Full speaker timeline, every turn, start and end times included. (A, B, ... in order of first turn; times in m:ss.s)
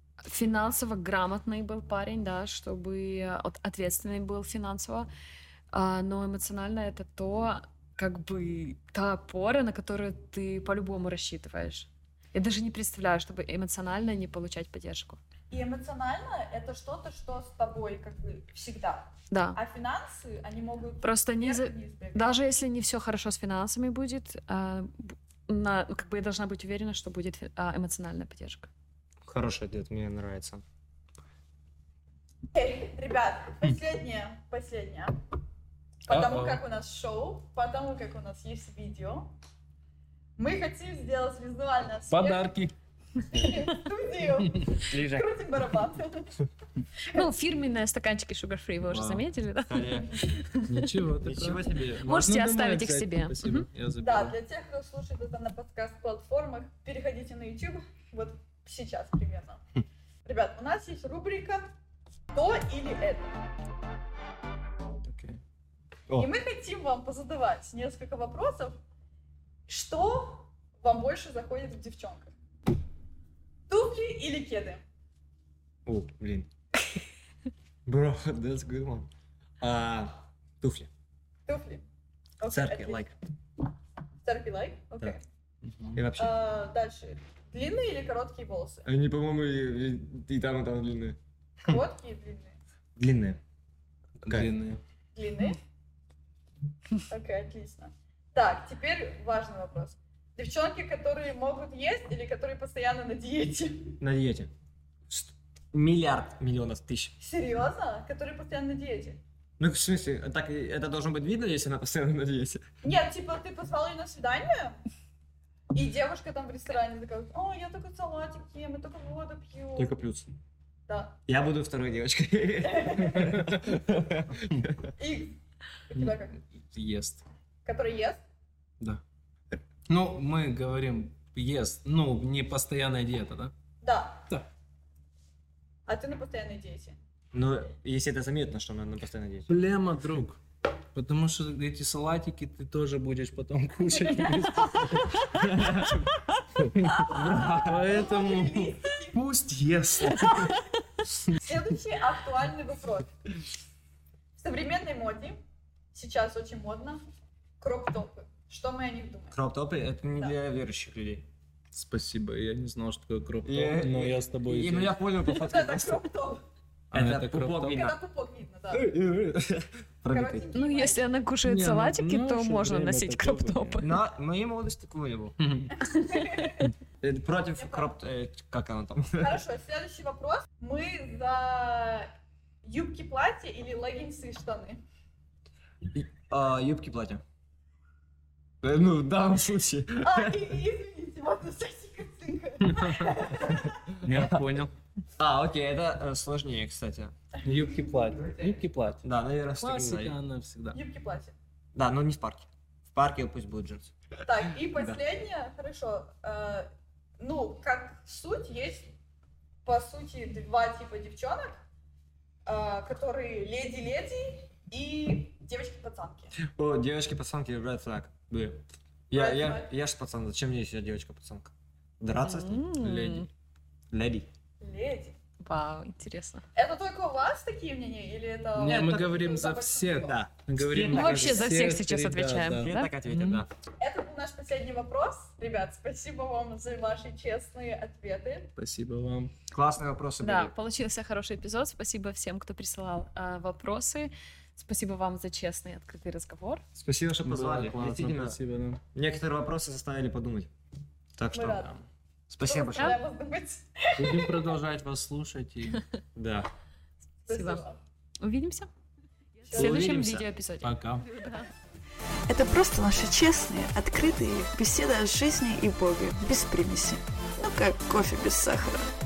0:00.2-0:05.1 A
0:05.7-0:15.2 A
0:15.5-0:22.3 B
0:19.3-0:19.6 A
0:21.0-0:28.7 A
0:29.3-0:30.6 C
0:32.5-0:35.2 B
0:36.1-0:39.3 B
0:36.1-0:36.6 D
0:40.4-0:42.5 B
0:42.1-0:42.7 D
0:43.3-0:46.3 B
0:43.3-0:43.6 D
0:44.8-0:45.4 C
0:47.0-0:47.3 B
0:47.1-0:50.7 A
0:48.9-0:50.2 C
0:50.7-0:54.4 D
0:51.2-0:52.1 C
0:52.1-0:53.7 A
0:54.0-0:59.6 B
1:00.2-1:01.7 B
1:02.3-1:03.4 B
1:05.1-1:05.4 D
1:06.2-1:08.8 B
1:09.7-1:12.3 B
1:13.7-1:14.8 B
1:15.9-1:16.5 C
1:17.9-1:19.1 C
1:19.6-1:20.9 C
1:21.5-1:21.8 B
1:22.4-1:23.1 B
1:22.4-1:23.1 C
1:24.2-1:25.2 B
1:25.6-1:26.0 D
1:26.0-1:26.4 C
1:26.2-1:28.9 B
1:28.8-1:31.2 C
1:31.6-1:32.6 B
1:33.0-1:33.4 C
1:34.2-1:34.8 D
1:35.2-1:35.6 B
1:37.1-1:44.0 B
1:44.0-1:44.5 C
1:45.1-1:47.2 C
1:47.2-1:49.2 B
1:49.6-1:52.6 C
1:52.8-1:54.8 B
1:55.7-1:59.9 B
1:59.8-2:00.3 C
2:00.9-2:01.2 B
2:01.3-2:04.7 C
2:02.6-2:03.3 B
2:03.4-2:03.6 D
2:04.4-2:04.7 D
2:05.0-2:05.4 B
2:05.9-2:06.4 B
2:06.0-2:07.2 D
2:07.6-2:08.2 B
2:09.9-2:13.5 D
2:13.8-2:14.2 B
2:15.9-2:17.0 B
2:17.3-2:19.6 C
2:19.5-2:20.4 D
2:21.0-2:30.6 D
2:25.5-2:26.0 C
2:27.0-2:29.2 B
2:27.1-2:27.6 C
2:30.2-2:30.6 B
2:31.1-2:31.4 D
2:31.4-2:33.1 B
2:34.4-2:35.4 B
2:35.9-2:37.0 B
2:37.6-2:39.4 B
2:39.3-2:41.3 C
2:41.7-2:45.0 D
2:43.4-2:46.0 C
2:45.3-2:46.4 B
2:46.9-2:47.8 D
2:46.9-2:48.0 C
2:47.7-2:48.9 B
2:48.7-2:50.5 C
2:50.1-2:51.1 B
2:50.5-2:53.9 A
2:51.4-2:53.8 D
2:53.8-2:55.4 C
2:55.4-2:55.8 D
2:55.8-2:56.7 B
2:56.0-2:56.3 A
2:57.0-2:59.4 C
2:57.6-2:57.9 B
2:59.2-3:02.1 B
3:02.6-3:04.8 B
3:05.9-3:07.2 C
3:08.6-3:10.5 C
3:10.0-3:13.9 B
3:12.6-3:13.2 D
3:14.0-3:14.7 D
3:15.2-3:17.1 C
3:17.4-3:19.0 D
3:19.0-3:20.2 C
3:19.6-3:20.8 D
3:20.7-3:21.4 B
3:21.8-3:24.0 C
3:24.2-3:28.9 B
3:24.8-3:25.0 C
3:29.6-3:31.6 B
3:32.5-3:36.4 B
3:36.4-3:42.8 C
3:39.1-3:39.7 B
3:42.2-3:43.3 A
3:42.8-3:43.3 D
3:43.9-3:44.3 C
3:44.6-3:45.2 B
3:45.4-3:46.4 A
3:46.6-3:50.2 B
3:48.6-3:53.4 D
3:48.6-3:49.2 C
3:50.0-3:51.5 C
3:50.9-3:52.9 A
3:52.5-3:53.5 C
3:53.8-3:58.5 B
3:58.6-3:59.3 D
3:59.5-4:00.5 C
4:00.2-4:06.6 A
4:06.8-4:08.4 C
4:07.2-4:08.8 D
4:08.9-4:10.5 C
4:11.2-4:11.7 C
4:11.4-4:11.7 B
4:12.3-4:13.0 C
4:12.4-4:14.5 B
4:14.0-4:15.8 D
4:16.2-4:16.5 C
4:17.3-4:17.8 B
4:17.3-4:17.7 A
4:18.2-4:18.7 A
4:19.5-4:19.8 B
4:19.5-4:21.4 A
4:19.5-4:20.3 C
4:19.6-4:20.0 D
4:20.6-4:21.1 D
4:22.3-4:28.9 E